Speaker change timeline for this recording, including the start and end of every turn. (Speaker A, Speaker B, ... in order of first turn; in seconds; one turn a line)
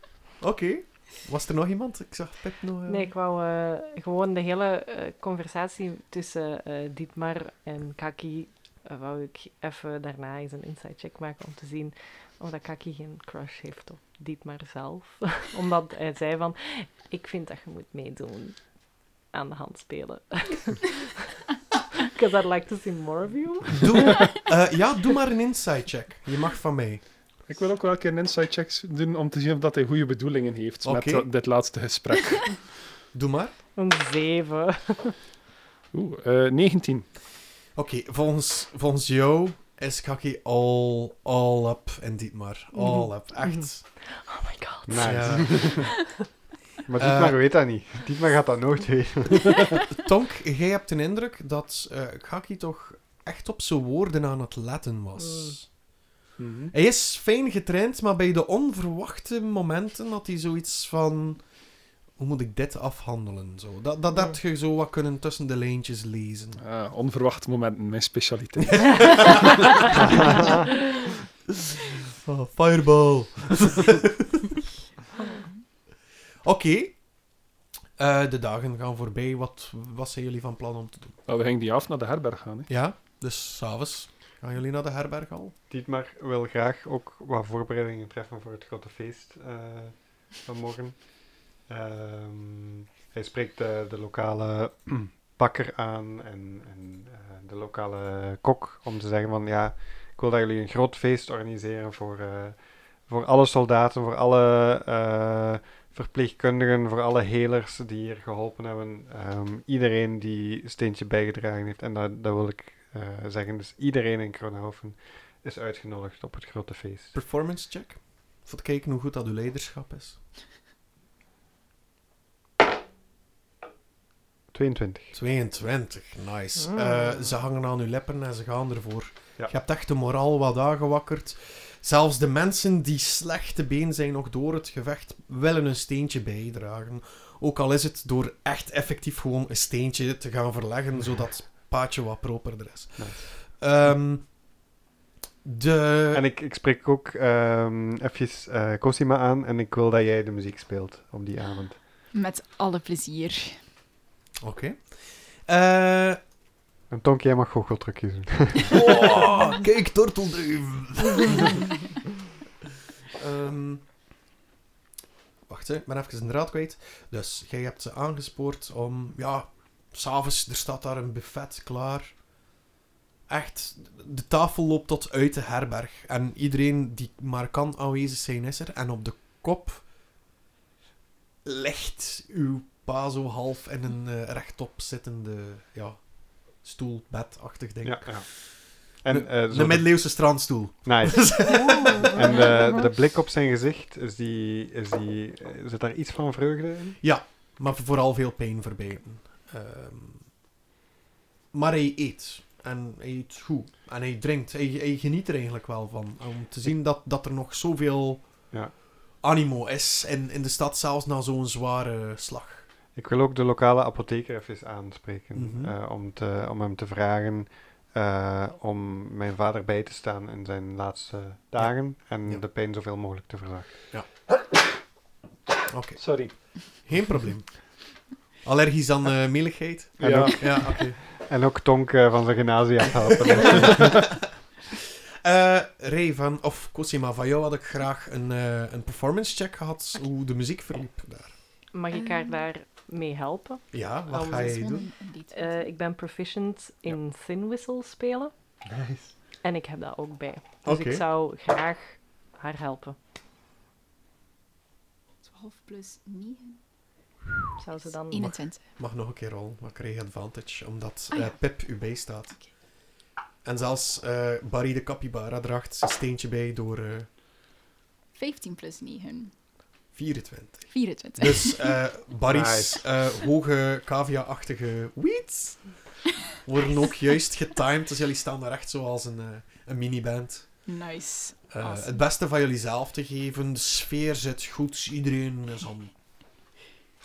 Speaker A: 0.4-3.1
Speaker B: 2.9-21.1
Speaker B: 22.1-24.2
Speaker A: 23.8-27.0
Speaker C: 27.5-32.7
Speaker A: 30.8-31.3
Speaker A: 33.1-33.5
Speaker B: 33.8-35.2
Speaker C: 35.9-37.1
Speaker A: 37.7-43.9
Speaker B: 43.4-45.5
Speaker D: 44.9-46.0
Speaker A: 45.0-45.9
Speaker D: 46.9-49.8
Speaker A: 47.0-47.4
Speaker A: 49.9-55.8
Speaker C: 56.4-56.7
Speaker A: 56.7-61.6
Speaker A: 62.1-66.6
Speaker C: 66.6-69.4
Speaker A: 68.6-70.2
Speaker A: 72.2-74.5
Speaker A: 76.4-77.5
Speaker A: 78.0-81.2
Speaker C: 81.2-82.7
Speaker A: 82.7-85.5
Speaker D: 85.7-117.2
Speaker A: 117.1-120.2
Speaker D: 124.5-125.1
Speaker A: 125.1-144.5
Speaker D: 143.0-143.3
Speaker A: 145.4-146.2
Speaker D: 146.1-151.9
Speaker E: 152.1-153.6
Speaker A: 154.4-156.2
Speaker D: 156.9-158.9
Speaker A: 158.7-161.7
Speaker A: 163.1-163.8
Speaker A: 165.5-172.2
Speaker A: 173.3-179.8
Speaker A: 181.4-192.2
Speaker D: 187.8-197.0
Speaker A: 197.0-200.3
Speaker A: 201.5-208.5
Speaker A: 209.2-212.7
Speaker D: 212.9-223.9
Speaker A: 215.3-215.7
Speaker A: 221.6-222.4
Speaker A: 225.7-231.0
Speaker C: 225.9-227.1
Speaker D: 230.0-234.1
Speaker C: 230.0-230.8
Speaker A: 233.2-234.1
Speaker C: 233.7-234.0
Speaker A: 235.2-241.4
Speaker B: 241.7-244.5
Speaker E: 241.9-242.5
Speaker A: 243.7-244.9
Speaker E: 244.1-245.7
Speaker B: 245.3-248.3
Speaker D: 248.7-249.1
Speaker B: 249.4-252.9
Speaker A: 250.6-251.0
Speaker E: 255.2-256.6
Speaker B: 257.6-258.4
Speaker E: 257.8-258.7
Speaker A: 258.2-267.1
Speaker E: 261.1-261.4
Speaker E: 268.1-269.3
Speaker A: 269.9-280.8
Speaker E: 270.7-271.8
Speaker D: 272.3-272.8
Speaker E: 280.6-282.0
Speaker A: 281.5-285.9